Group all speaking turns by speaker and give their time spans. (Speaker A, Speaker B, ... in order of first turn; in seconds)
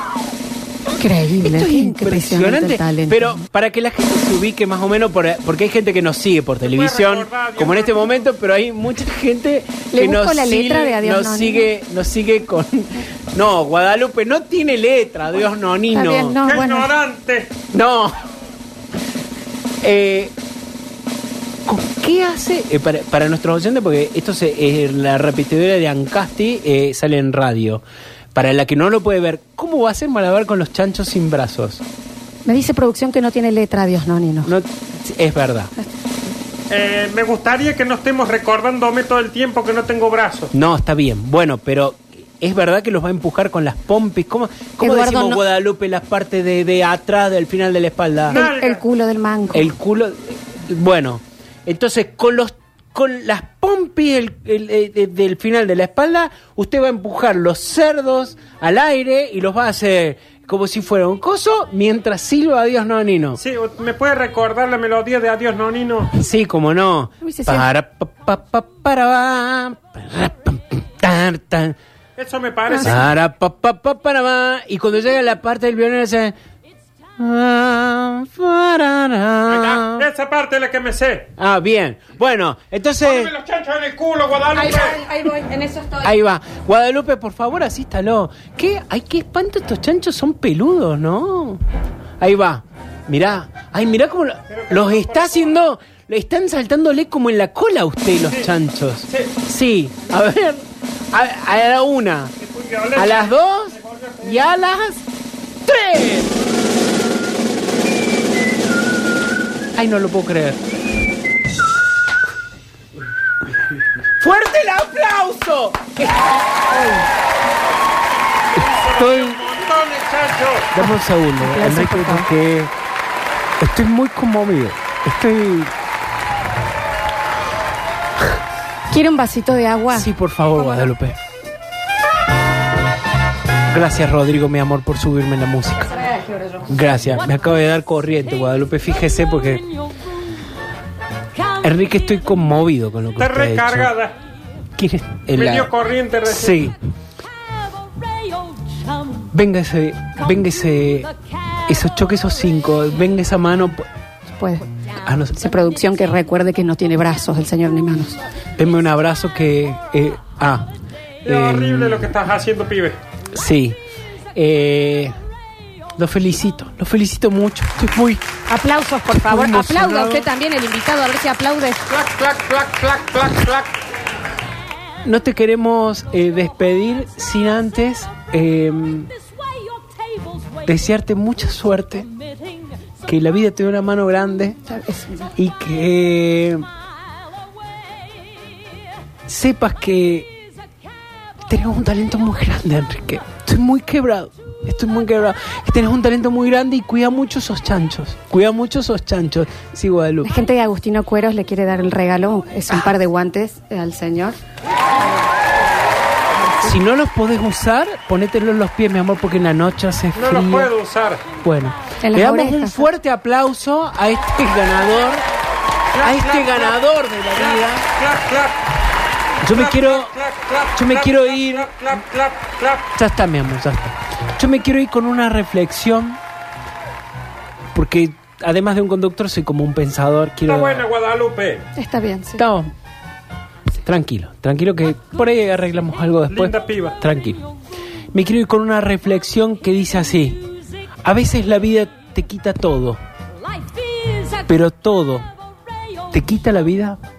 Speaker A: 0.9-3.4, 9.9-11.7, 15.9-16.9, 32.5-34.5, 44.8-45.4, 48.3-49.7, 67.2-67.7, 84.5-86.1, 120.8-122.3, 128.9-130.1, 135.9-136.7, 154.4-154.7, 155.3-158.2, 168.5-171.8, 184.7-185.3, 200.2-204.4, 212.0-212.9, 231.8-232.4
Speaker B: 1.4-16.4, 17.7-18.2, 19.8-20.3, 21.7-27.8, 28.3-31.8, 34.4-35.7, 40.5-48.5, 49.5-63.4, 66.1-71.8, 72.7-76.3, 77.2-80.1, 81.4-83.3, 86.0-91.6, 92.2-102.3, 103.0-105.0, 105.7-106.3, 109.8-110.6, 114.2-116.9, 118.8-119.4, 120.7-122.7, 123.6-125.7, 129.9-131.2, 133.7-136.1, 136.7-139.7, 141.6-143.9, 144.8-145.7, 146.3-146.8, 149.3-151.1, 151.7-153.9, 155.0-155.4, 158.6-160.7, 161.2-162.1, 163.3-163.8, 164.3-165.1, 166.0-168.3, 169.1-170.3, 175.0-179.1, 180.7-182.1, 183.1-184.6, 185.4-186.6, 189.3-190.3, 191.5-200.3, 206.6-210.7, 211.4-215.2, 216.0-217.9, 219.4-220.1, 220.8-221.8, 223.0-226.2, 227.7-230.8, 232.4-232.7, 233.8-237.4, 238.1-240.5, 241.0-243.0, 244.5-245.3, 246.1-247.0
Speaker C: 6.6-8.2, 16.4-17.5, 36.7-40.5, 48.3-48.8, 63.4-66.1, 72.2-73.1, 79.5-81.3, 83.0-85.0, 94.5-95.6, 102.4-104.5, 118.6-120.7, 143.2-144.2, 145.3-146.7, 161.2-163.0, 171.9-173.7, 210.2-211.2, 215.9-216.8, 217.3-218.6, 219.5-222.9, 230.5-231.6, 236.3-237.0